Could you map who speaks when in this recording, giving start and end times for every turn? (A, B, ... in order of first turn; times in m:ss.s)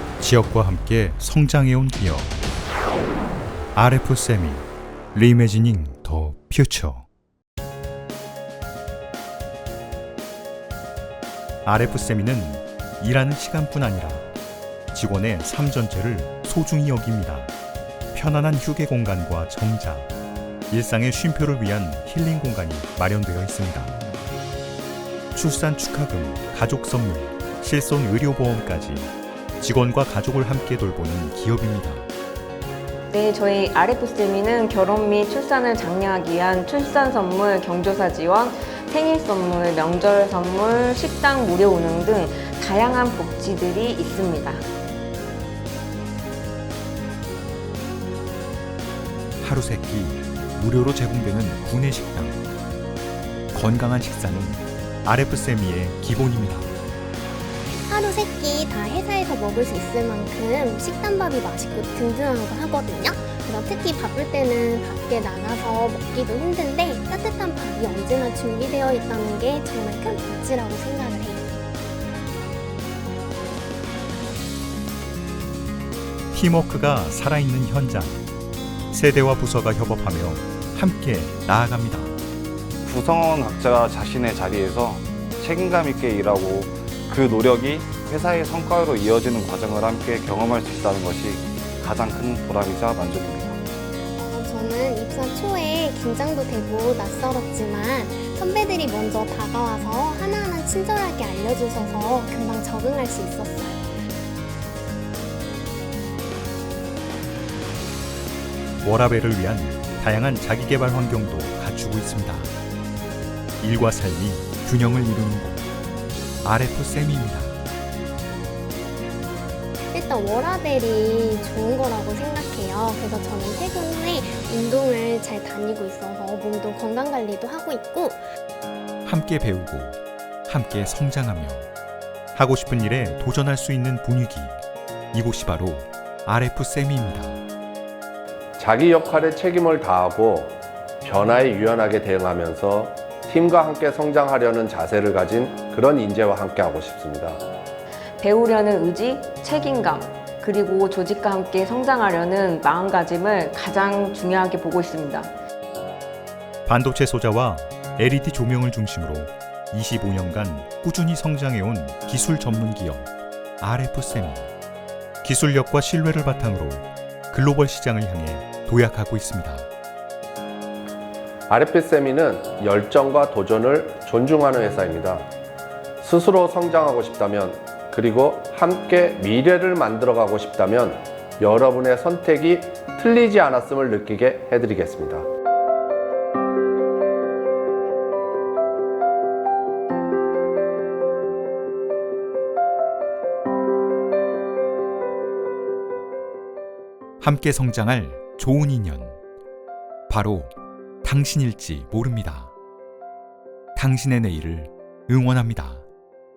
0:00.2-0:02.4 A
0:03.7-0:07.0 A
0:11.6-0:14.3 A
0:14.9-0:17.5 A
0:18.1-0:20.1 A
0:20.7-0:24.0 A
0:25.3-0:32.1 A
0:33.1-0:44.6 B
0:49.4-0:52.4 A
0:53.5-0:56.7 A
0:57.9-1:11.5 C
1:16.3-1:18.2 A
1:18.9-1:22.2 A
1:22.8-1:33.6 D
1:34.2-1:43.8 C
1:48.8-1:52.5 A
1:53.6-1:55.6 A
1:56.4-1:57.6 A
1:59.9-2:08.2 C
2:09.0-2:11.7 A
2:12.3-2:17.4 A
2:18.6-2:27.4 E
2:28.2-2:35.3 B
2:36.6-2:44.5 A
2:45.2-2:49.7 A
2:51.5-2:55.2 E
2:56.0-3:05.2 E
3:17.2-3:19.2 A
3:20.1-3:22.5 A
3:23.7-3:25.8 A